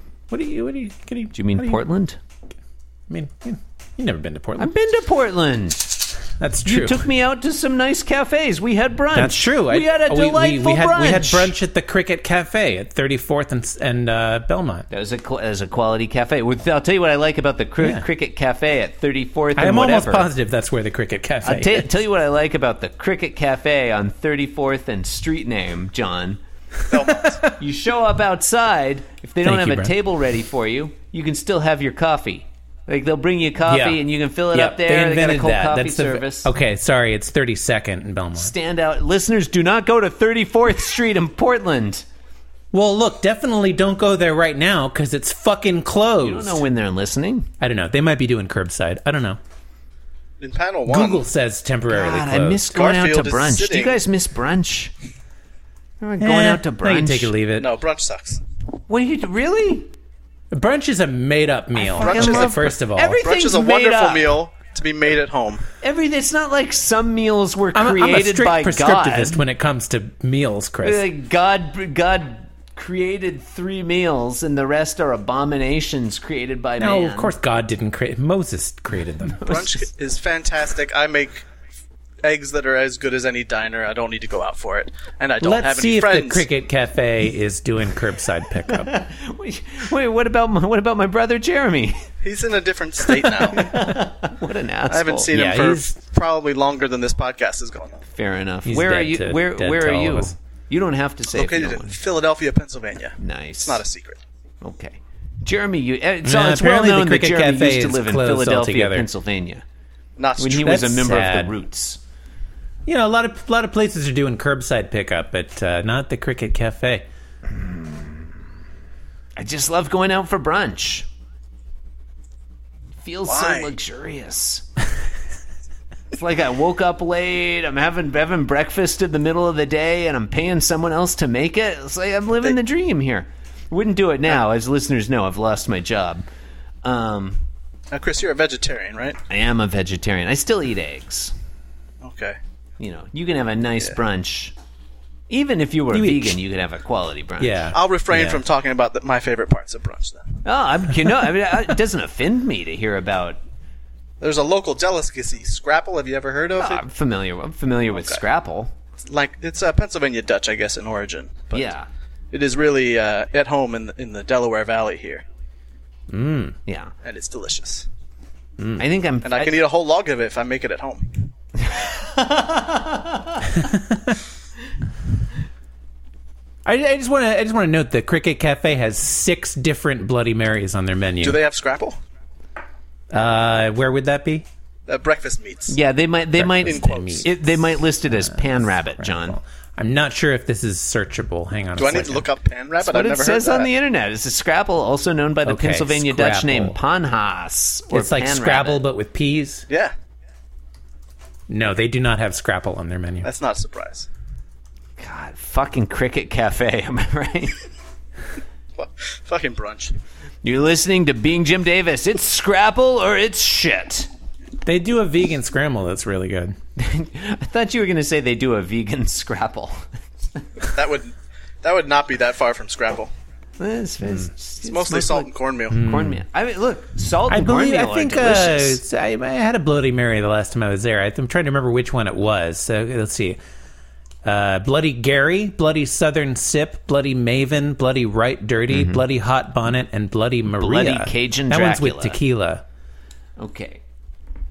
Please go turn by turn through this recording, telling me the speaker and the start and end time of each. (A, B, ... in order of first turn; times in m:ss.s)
0:00.3-0:01.8 A
0:01.3-0:02.2 B
0:03.1-0:04.7 A
0:04.6-0:06.1 B
0:06.4-0:07.1 A
0:06.6-0:11.6 B
0:09.1-0:14.9 A
0:14.9-0:20.3 B
0:17.8-0:18.1 A
0:19.6-0:21.9 A
0:21.4-0:26.4 B
0:26.9-0:27.4 C
0:26.9-0:27.5 A
0:27.6-0:36.5 B
0:29.4-0:30.0 A
0:33.7-0:38.5 A
0:38.4-0:42.1 B
0:42.7-0:46.7 A
0:46.2-0:47.5 B
0:47.6-0:49.4 A
0:50.4-0:51.2 C
0:50.9-0:52.6 A
0:51.9-0:54.9 B
0:52.7-0:54.0 C
0:56.0-0:57.3 B
0:56.2-0:57.7 A
0:57.6-0:58.4 C
0:58.9-0:59.9 B
1:00.5-1:03.2 A
1:01.7-1:04.4 B
1:03.2-1:05.6 C
1:05.8-1:09.4 B
1:07.7-1:11.1 A
1:10.8-1:17.4 B
1:16.8-1:19.5 A
1:19.3-1:19.8 B
1:19.5-1:21.4 C
1:22.2-1:26.5 C
1:25.4-1:28.9 A
1:28.7-1:32.0 B
1:32.2-1:33.8 C
1:33.5-1:35.3 B
1:34.9-1:38.0 C
1:35.3-1:35.9 A
1:38.1-1:42.0 B
1:38.6-1:40.3 A
1:41.3-1:44.2 C
1:43.2-1:43.8 B
1:44.6-1:49.6 B
1:46.2-1:49.1 A
1:50.2-1:50.9 C
1:50.4-1:52.0 B
1:50.6-1:51.6 A
1:52.9-1:57.1 A
1:57.6-1:58.1 B
1:59.4-2:01.1 B
2:03.0-2:04.7 B
2:03.2-2:03.7 C
2:06.1-2:16.3 B
2:16.8-2:17.4 B
2:17.9-2:19.2 C
2:19.3-2:21.3 B
2:22.0-2:22.4 C
2:22.8-2:24.6 B
2:25.3-2:27.7 B
2:25.9-2:26.4 A
2:27.4-2:28.4 A
2:27.7-2:30.4 C
2:30.4-2:33.4 B
2:34.2-2:36.9 C
2:36.6-2:38.7 B
2:37.9-2:38.2 C
2:39.1-2:41.7 C
2:41.5-2:41.9 B
2:42.3-2:45.2 C
2:46.1-2:46.6 A
2:46.7-2:46.9 B
2:47.0-2:47.9 C
2:48.6-2:48.8 A
2:48.8-2:49.6 B
2:49.2-2:51.3 C
2:51.6-2:53.2 B
2:53.7-2:54.0 A
2:56.6-3:01.4 A
3:01.2-3:02.0 C
3:03.1-3:04.5 A
3:04.9-3:05.8 C
3:05.7-3:09.4 B
3:06.4-3:12.3 A
3:06.6-3:07.3 C
3:11.8-3:13.7 C
3:12.8-3:18.8 B
3:15.4-3:16.8 A
3:17.9-3:19.7 A
3:19.7-3:19.9 C
3:21.5-3:23.3 A
3:23.2-3:24.1 C
3:25.0-3:27.6 B
3:28.8-3:29.9 C
3:30.4-3:34.1 B
3:34.6-3:36.6 A
3:36.8-3:39.8 B
3:40.7-3:43.1 C
3:43.6-3:48.8 B
3:44.6-3:45.8 C
3:45.7-3:46.2 A
3:47.3-3:53.4 A
3:54.2-4:02.6 A
3:58.7-3:59.0 B
4:00.5-4:02.2 B
4:03.4-4:03.8 B